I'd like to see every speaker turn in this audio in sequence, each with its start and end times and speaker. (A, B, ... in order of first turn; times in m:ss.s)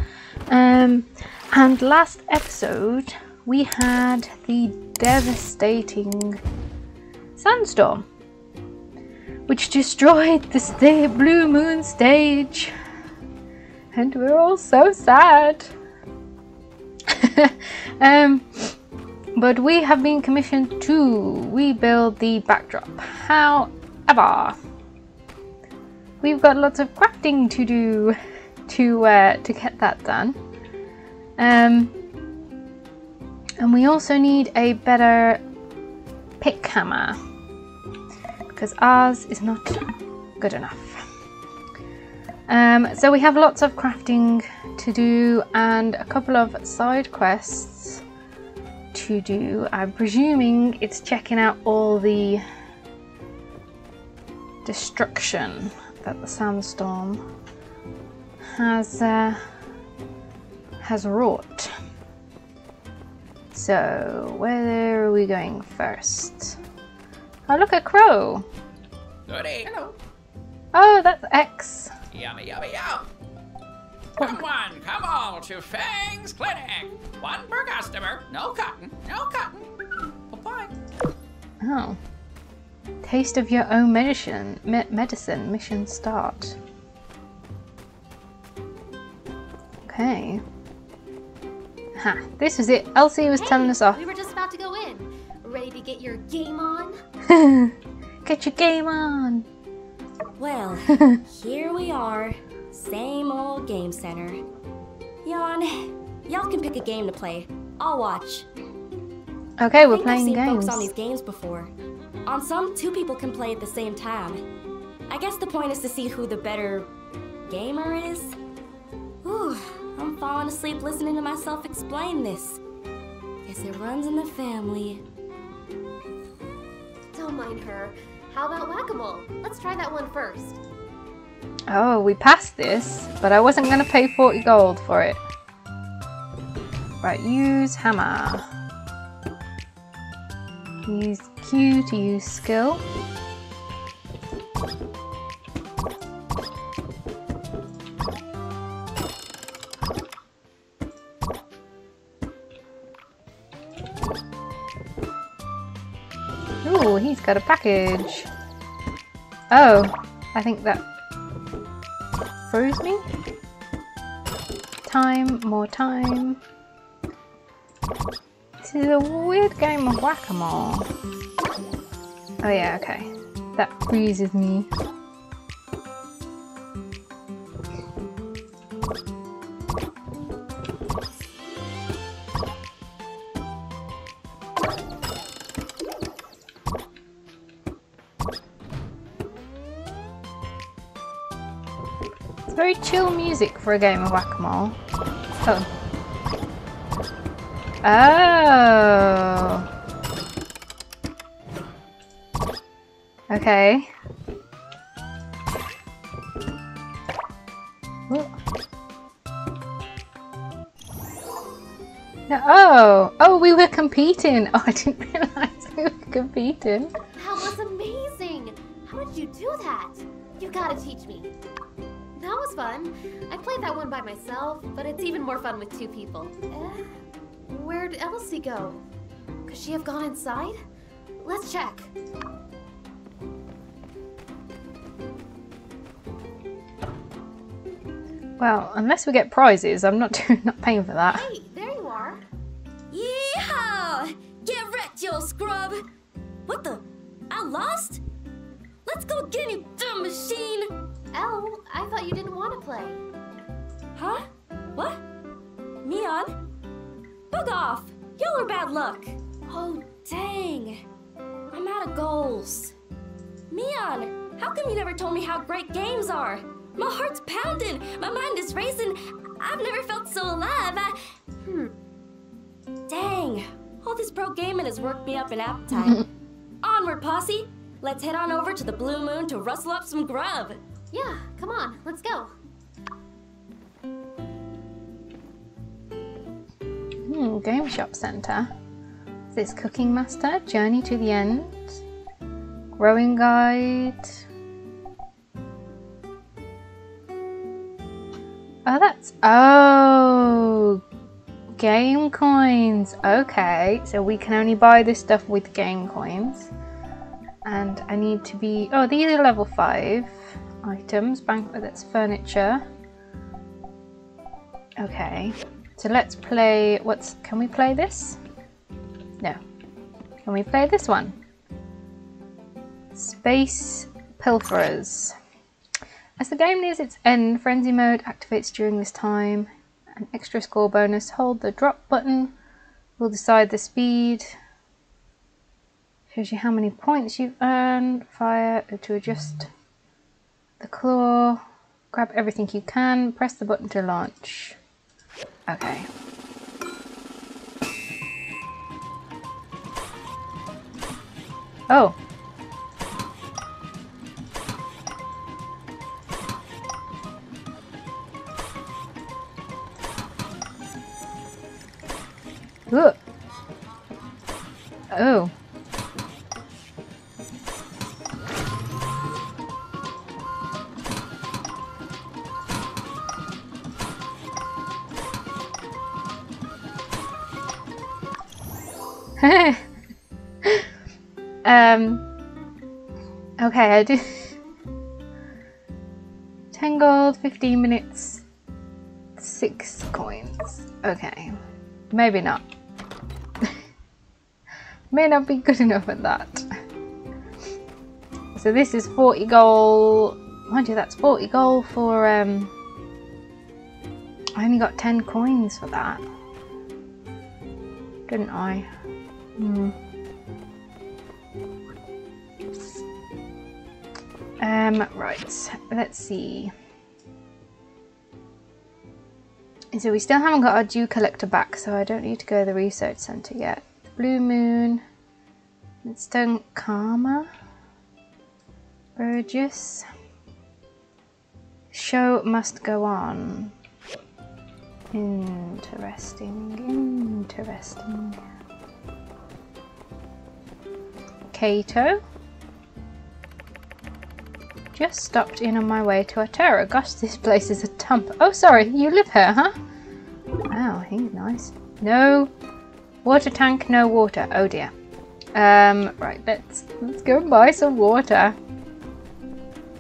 0:00.5-0:06.4 A
0:07.4-0:08.1 A
0:09.5-0:12.7 A
0:13.9-0:15.7 A
0:17.1-0:18.8 A
0:19.4-0:24.6 A
0:26.2-0:30.4 A
0:31.4-0:31.9 A
0:33.6-0:35.4 A
0:36.4-0:37.2 A
0:38.5-0:39.9 A
0:40.4-0:41.1 A
0:42.5-0:48.0 A
0:48.9-0:52.4 A
0:54.6-0:57.2 A
0:58.4-0:59.4 A
1:00.8-1:01.7 A
1:03.5-1:06.6 A
1:07.5-1:08.5 A
1:09.3-1:10.0 B
1:10.7-1:11.9 A
1:12.1-1:13.1 B
1:14.2-1:19.6 B
1:20.3-1:20.7 B
1:21.6-1:22.0 A
1:23.0-1:26.6 A
1:29.9-1:30.4 A
1:32.0-1:34.0 A
1:33.4-1:37.0 C
1:37.3-1:39.5 A
1:40.4-1:44.4 D
1:40.9-1:41.2 A
1:45.2-1:48.5 D
1:49.6-1:50.9 A
1:49.9-1:51.7 D
1:52.3-1:54.4 D
1:55.1-1:56.9 D
1:57.5-1:58.4 D
1:59.2-2:02.6 D
2:03.5-2:05.0 D
2:07.1-2:10.6 C
2:11.7-2:15.2 A
2:17.0-2:18.5 A
2:20.9-2:22.8 A
2:36.6-2:38.3 A
2:39.5-2:40.8 A
2:42.5-2:43.1 A
2:44.8-2:46.4 A
2:48.6-2:50.9 A
2:52.4-2:54.7 A
3:12.5-3:14.8 A
3:17.8-3:19.7 A
3:23.3-3:23.9 A
3:32.3-3:36.9 A
3:37.2-3:41.3 C
3:42.2-3:46.9 C
3:47.5-3:48.8 C
3:49.5-3:50.6 C
3:51.2-3:51.9 C
3:58.4-4:01.3 A
4:01.1-4:02.2 C
4:02.9-4:05.8 D
4:06.5-4:08.0 D
4:08.9-4:10.7 D
4:11.1-4:13.0 C
4:14.0-4:14.2 D
4:14.8-4:15.0 D
4:15.8-4:16.4 D
4:17.3-4:20.8 D
4:21.5-4:22.8 D
4:23.5-4:31.0 D
4:31.4-4:31.7 C
4:32.9-4:36.1 D
4:35.7-4:36.1 A
4:36.6-4:40.6 D
4:40.9-4:42.3 C
4:47.0-4:48.5 A
4:49.3-4:51.8 A
4:52.8-4:54.2 A
4:58.7-5:00.8 A
5:01.6-5:06.5 A
5:07.4-5:12.6 A
5:14.8-5:18.2 A
5:20.2-5:21.2 A
5:22.9-5:25.2 A
5:26.2-5:32.3 A
5:33.0-5:34.4 A
5:36.1-5:39.5 A
5:40.6-5:44.6 A
5:45.5-5:45.9 A
5:51.7-5:52.0 A
6:02.7-6:03.0 A
6:04.9-6:05.3 A
6:19.2-6:19.6 A
6:21.4-6:22.1 A
6:23.4-6:24.4 A
6:26.5-6:28.2 A
6:29.2-6:31.4 A
6:31.9-6:32.4 A
6:34.9-6:36.5 A
6:38.4-6:42.5 A
6:44.4-6:46.0 A
6:48.1-6:48.7 A
6:49.4-6:49.8 A
6:54.4-6:56.5 A
6:59.7-7:04.8 A
7:05.8-7:07.3 A
7:09.0-7:09.9 A
7:11.7-7:13.5 A
7:14.9-7:18.2 A
7:21.3-7:22.0 A
7:24.7-7:29.6 A
7:30.5-7:32.3 A
7:33.0-7:34.7 A
7:35.3-7:38.4 A